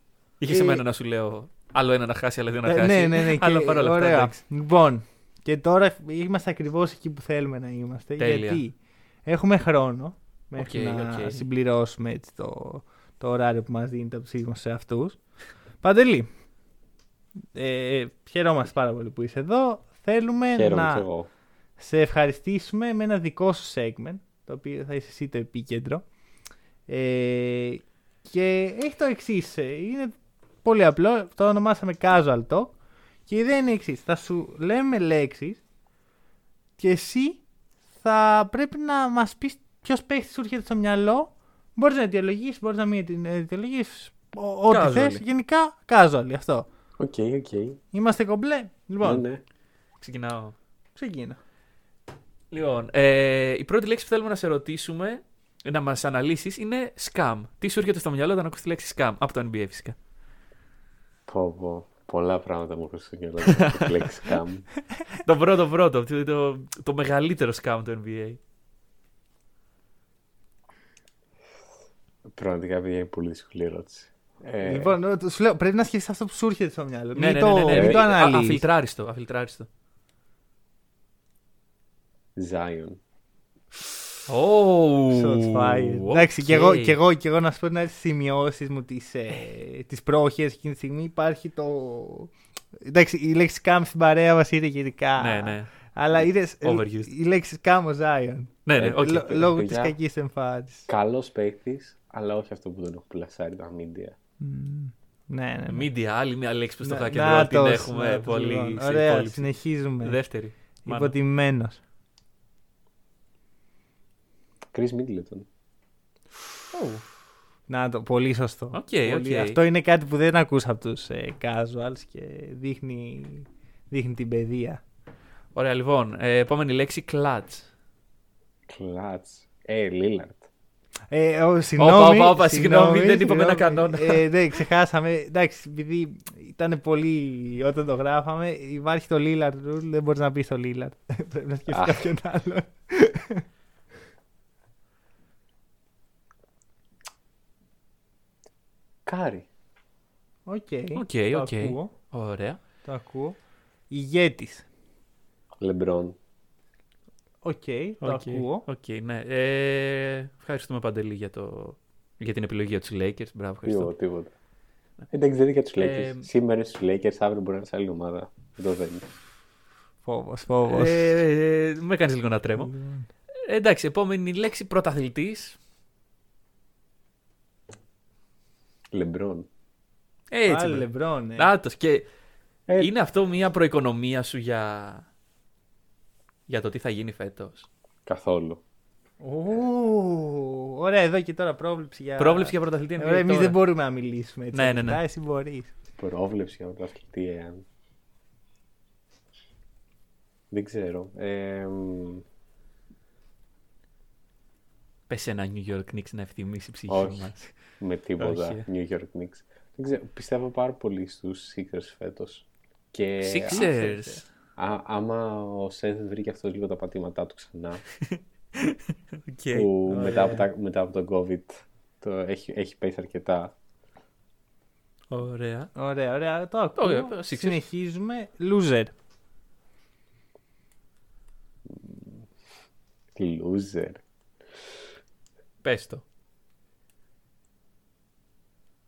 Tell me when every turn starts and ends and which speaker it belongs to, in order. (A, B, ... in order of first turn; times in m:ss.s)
0:00.4-0:04.4 A
0:00.5-0:00.8 B
0:02.6-0:15.2 B
0:08.2-0:08.6 A
0:10.6-0:11.5 A
0:15.8-0:16.3 B
0:17.5-0:21.1 B
0:20.6-0:21.3 C
0:21.8-0:26.0 B
0:26.9-0:32.8 B
0:33.3-0:35.6 B
0:36.8-0:37.4 B
0:38.0-0:46.7 B
0:44.7-0:45.2 A
0:47.0-0:47.8 C
0:47.9-0:49.2 B
0:49.0-0:49.4 C
0:50.0-0:50.6 A
0:51.0-0:51.4 B
0:52.5-1:00.0 A
1:01.3-1:04.7 C
1:03.5-1:04.0 A
1:05.1-1:08.4 A
1:12.3-1:14.9 C
1:14.6-1:18.6 B
1:17.1-1:19.7 A
1:17.7-1:18.0 C
1:22.4-1:23.0 C
1:24.3-1:27.0 A
1:25.1-1:40.9 B
1:35.2-1:35.7 A
1:36.6-1:37.1 A
1:38.7-1:39.5 A
1:38.8-1:40.0 C
1:40.9-1:44.2 C
1:44.4-1:45.9 B
1:45.7-1:51.1 A
1:46.8-1:50.2 B
1:50.8-1:51.8 B
1:54.7-1:55.5 C
1:56.7-1:57.0 A
1:57.7-2:04.8 B
1:58.7-1:59.6 A
2:05.6-2:07.7 A
2:08.7-2:10.4 C
2:11.1-2:23.4 B
2:11.8-2:14.2 A
2:21.7-2:22.1 C
2:29.1-2:29.5 C
2:30.5-2:31.9 B
2:31.0-2:32.6 A
2:32.8-2:33.4 B
2:33.9-2:34.7 B
2:35.6-2:36.2 C
2:37.4-2:38.6 B
2:38.0-2:43.9 A
2:43.6-2:44.3 C
2:45.1-2:49.1 C
2:45.8-2:46.3 A
2:50.0-2:51.1 B
2:50.7-2:52.7 A
2:52.6-2:53.1 B
2:53.5-2:55.6 A
2:58.9-2:59.5 C
3:00.3-3:02.1 A
3:00.5-3:01.5 B
3:02.8-3:05.1 A
3:06.5-3:07.7 A
3:08.1-3:08.6 C
3:09.2-3:15.7 B
3:12.2-3:13.6 A
3:14.5-3:15.0 A
3:16.0-3:17.6 C
3:20.5-3:22.2 C
3:25.1-3:27.6 A
3:26.9-3:33.6 C
3:28.2-3:28.6 A
3:33.2-3:34.3 A
3:33.5-3:34.2 B
3:34.6-3:37.8 C
3:38.0-3:39.7 A
3:39.5-3:43.5 C
3:39.9-3:40.5 B
3:45.1-3:45.7 A
3:45.8-3:48.9 B
3:46.8-3:47.6 A
3:51.7-3:52.3 C
3:53.2-3:54.0 C
3:55.6-3:56.0 A